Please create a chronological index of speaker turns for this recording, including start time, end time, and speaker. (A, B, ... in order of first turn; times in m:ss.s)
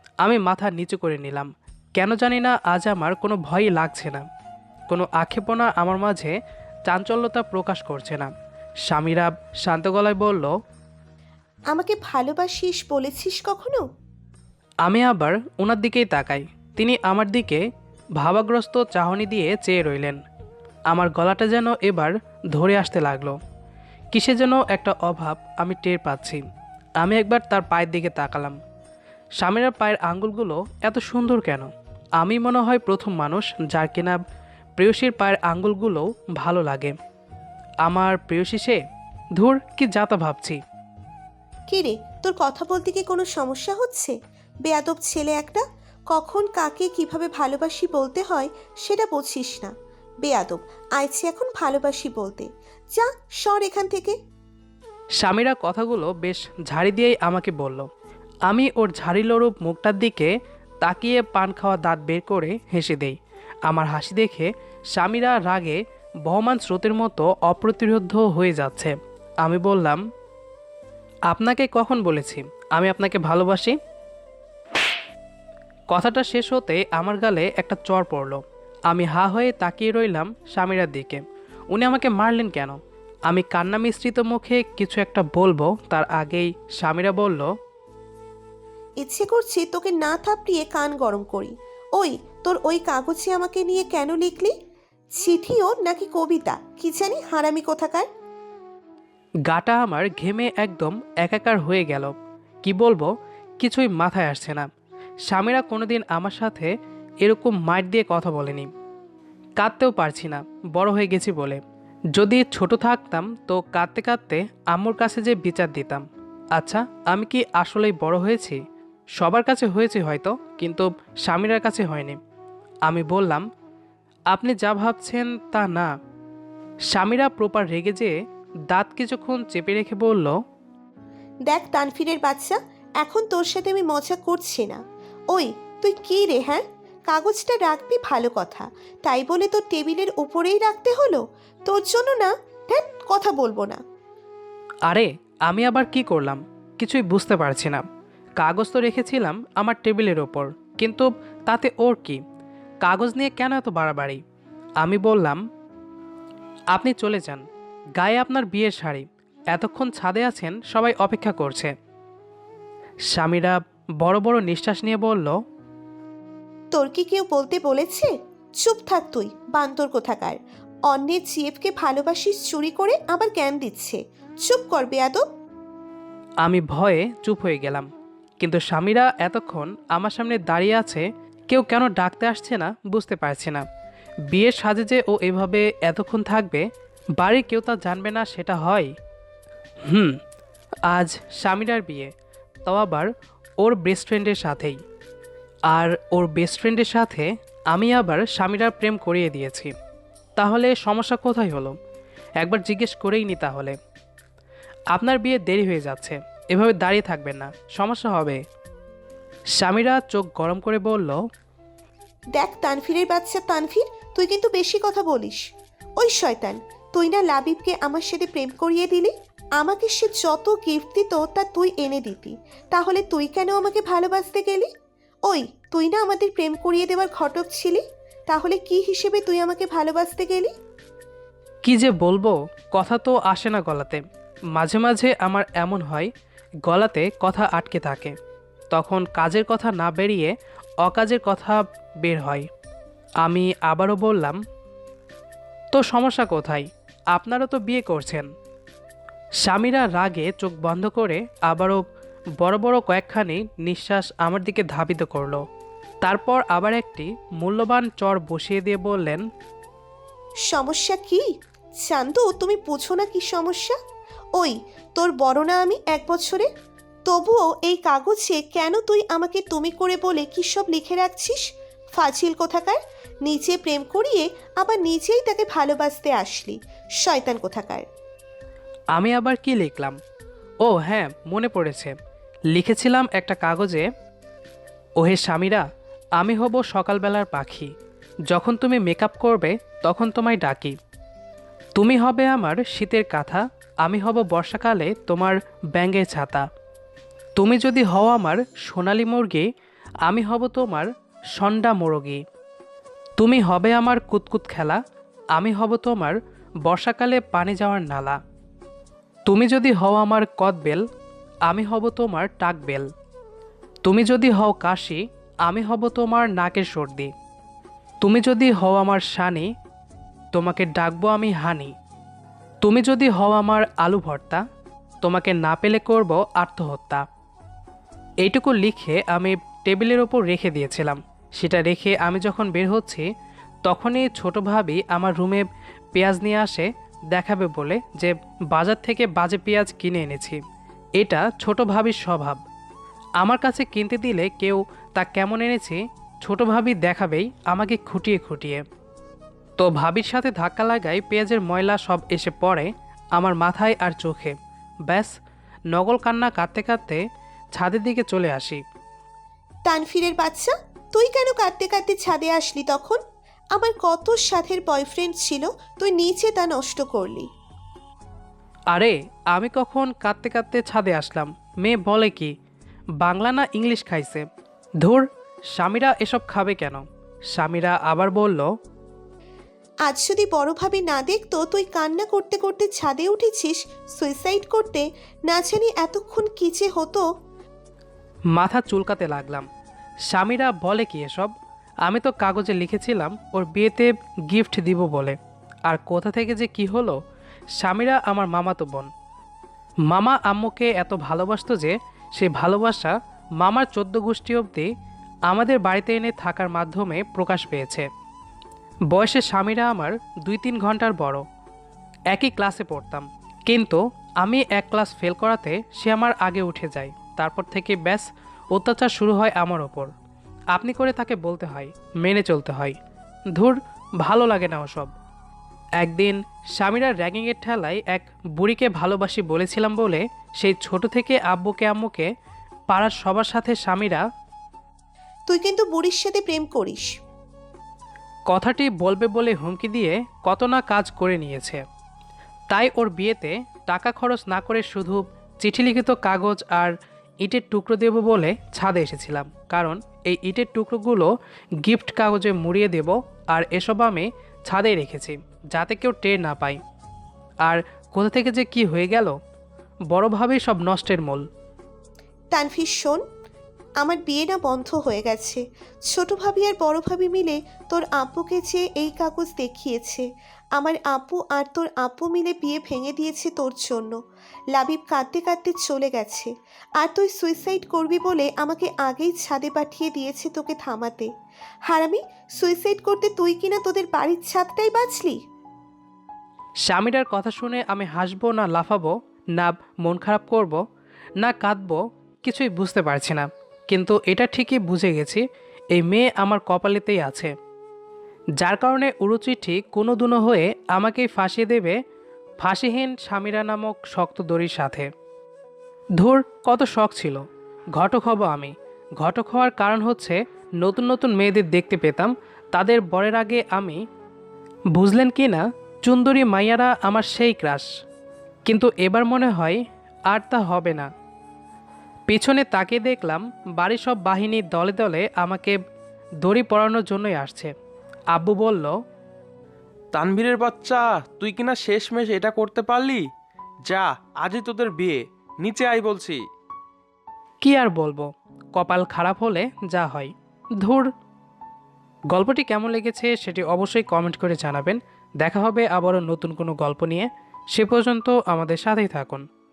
0:00.2-0:04.3 A
0:04.9-0:06.4 A
0:06.9-0:08.3 A
0:08.9-0:10.5 A
0:11.7-0:13.8 B
0:14.8-0:17.6 A
0:18.2-0:20.2 A
0:20.9-0:23.4 A
0:24.1-0:26.4 A
0:27.0-0:28.6 A
0:29.4-0:34.2 A
0:34.8-0:37.0 A
0:37.8-0:38.8 A
0:39.4-0:40.6 A
0:41.7-0:49.7 B
0:50.2-0:54.2 B
0:55.2-0:57.9 A
0:58.5-1:03.2 A
1:03.7-1:10.0 A
1:11.3-1:13.8 A
1:15.9-1:21.2 A
1:21.7-1:27.5 A
1:29.0-1:34.5 B
1:35.2-1:38.1 B
1:39.5-1:44.7 A
1:45.3-1:48.7 A
1:49.6-1:51.6 A
1:52.2-1:56.0 A
1:56.6-1:58.6 A
1:59.2-2:02.2 A
2:02.9-2:03.4 A
2:04.3-2:05.9 A
2:06.9-2:08.1 A
2:08.7-2:10.4 A
2:11.5-2:14.8 B
2:15.3-2:23.8 B
2:24.9-2:27.8 A
2:28.4-2:32.2 A
2:32.8-2:34.2 A
2:34.8-2:35.4 A
2:36.7-2:37.4 A
2:38.0-2:41.7 A
2:43.1-2:45.4 A
2:46.7-2:55.2 B
2:56.4-2:57.9 A
2:58.4-3:03.6 A
3:04.3-3:06.6 A
3:07.2-3:08.9 A
3:09.9-3:10.2 A
3:10.9-3:12.1 A
3:12.6-3:13.1 A
3:13.6-3:14.8 A
3:15.7-3:19.7 A
3:20.4-3:21.8 A
3:22.4-3:23.8 A
3:24.9-3:28.4 A
3:29.6-3:31.2 A
3:32.4-3:35.4 B
3:36.0-3:44.7 B
3:45.3-3:50.5 B
3:51.6-3:54.0 A
3:54.6-3:56.1 A
3:56.7-3:58.2 A
3:58.7-4:02.5 A
4:03.2-4:04.4 A
4:05.7-4:08.3 A
4:09.4-4:11.8 A
4:12.4-4:15.4 A
4:16.0-4:19.2 A
4:20.5-4:21.3 B
4:21.8-4:23.8 B
4:24.4-4:26.5 B
4:27.1-4:31.4 B
4:31.9-4:37.8 B
4:39.0-4:40.0 A
4:40.6-4:41.9 A
4:42.5-4:43.9 A
4:45.0-4:45.6 A
4:46.2-4:47.7 A
4:48.3-4:50.8 A
4:51.8-4:56.5 A
4:57.4-4:59.5 A
5:00.1-5:02.2 A
5:03.2-5:04.8 A
5:05.4-5:08.2 A
5:09.3-5:10.8 A
5:11.5-5:12.9 A
5:13.8-5:17.1 A
5:18.0-5:19.5 A
5:20.3-5:21.7 A
5:22.6-5:24.4 A
5:25.0-5:27.0 A
5:28.2-5:33.0 A
5:33.6-5:40.4 A
5:41.0-5:42.4 A
5:43.2-5:48.6 A
5:49.6-5:54.4 A
5:54.9-5:55.1 A
5:55.7-5:57.0 A
5:57.5-5:58.6 A
5:59.7-6:03.0 B
6:03.5-6:07.3 B
6:08.7-6:12.3 A
6:13.0-6:14.2 A
6:14.8-6:18.5 A
6:19.9-6:27.0 B
6:28.3-6:29.5 A
6:30.1-6:31.3 A
6:31.9-6:35.2 A
6:35.7-6:37.0 A
6:37.6-6:38.9 A
6:39.9-6:44.7 A
6:45.3-6:47.9 A
6:48.9-6:51.2 A
6:52.1-6:59.9 A
7:00.5-7:02.8 A
7:03.3-7:04.9 A
7:05.8-7:12.1 A
7:12.7-7:14.0 A
7:15.3-7:16.9 B
7:18.3-7:21.6 A
7:22.5-7:31.1 A
7:31.6-7:36.6 A
7:37.4-7:39.1 A
7:39.9-7:41.3 A
7:42.3-7:43.0 B
7:43.8-7:54.0 B
7:54.5-8:01.1 B
8:01.7-8:05.2 B
8:06.7-8:10.6 A
8:11.2-8:17.3 A
8:18.4-8:21.8 A
8:22.4-8:24.9 A
8:26.0-8:33.8 A
8:34.7-8:37.7 A
8:38.5-8:40.9 A
8:42.1-8:45.6 A
8:46.2-8:47.5 A
8:48.1-8:48.7 A
8:49.9-8:53.0 C
8:53.7-8:56.2 C
8:57.4-9:00.9 A
9:02.1-9:09.2 A